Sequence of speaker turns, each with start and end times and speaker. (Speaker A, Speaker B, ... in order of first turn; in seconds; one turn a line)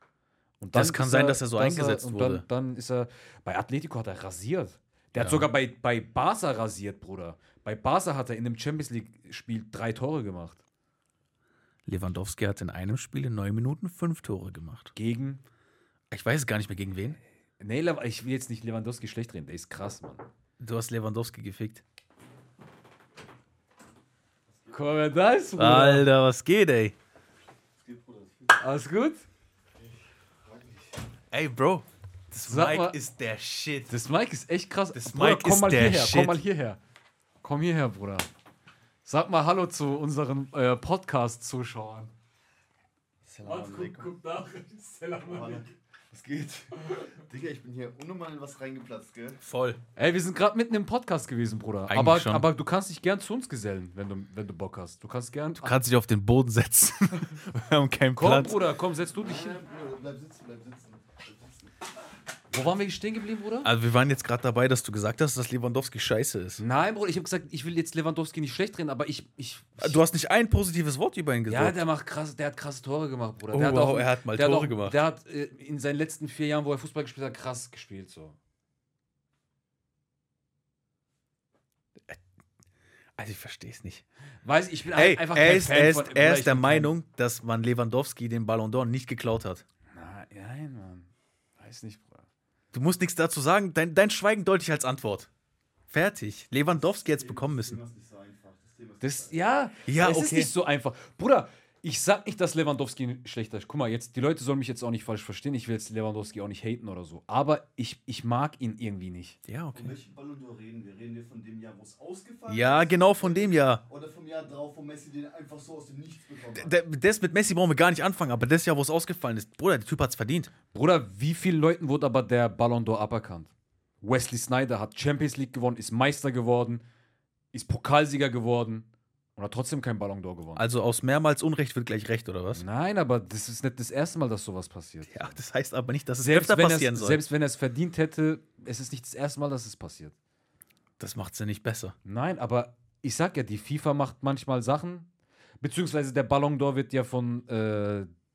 Speaker A: 0.6-10.6
Speaker B: 0.7-2.4
Speaker B: 5.2-5.5
Speaker B: 11.8-14.9
Speaker A: 14.9-15.4
Speaker B: 16.1-17.2
Speaker A: 17.6-20.2
Speaker B: 20.6-21.8
Speaker C: 24.5-25.1
Speaker A: 24.7-26.1
Speaker B: 25.6-26.9
Speaker C: 27.8-28.6
Speaker A: 28.5-29.2
Speaker C: 29.8-31.0
Speaker B: 31.3-33.9
Speaker A: 32.5-33.0
Speaker A: 33.9-36.8
Speaker B: 34.9-36.4
Speaker A: 37.4-38.3
Speaker A: 39.0-42.1
Speaker C: 43.3-44.0
Speaker A: 43.4-45.6
Speaker C: 45.2-49.4
Speaker B: 49.4-49.8
Speaker A: 50.0-55.8
Speaker B: 51.9-52.5
Speaker B: 55.6-58.6
Speaker A: 58.1-59.6
Speaker C: 59.1-61.7
Speaker A: 62.5-63.7
Speaker B: 63.6-66.6
Speaker A: 66.6-70.0
Speaker B: 69.8-71.8
Speaker A: 71.5-78.4
Speaker B: 73.5-75.0
Speaker B: 83.2-84.0
Speaker A: 84.4-86.9
Speaker B: 84.9-89.6
Speaker A: 89.9-92.2
Speaker B: 92.7-95.3
Speaker B: 95.9-97.8
Speaker C: 96.7-99.6
Speaker A: 99.0-109.4
Speaker B: 99.8-100.5
Speaker B: 109.5-109.9
Speaker C: 109.7-116.7
Speaker B: 112.5-113.8
Speaker B: 116.5-120.5
Speaker A: 120.7-126.8
Speaker A: 127.5-130.7
Speaker B: 130.6-132.6
Speaker A: 132.5-135.4
Speaker B: 135.1-137.2
Speaker A: 136.2-140.1
Speaker B: 141.0-141.9
Speaker A: 142.0-145.1
Speaker A: 145.6-148.1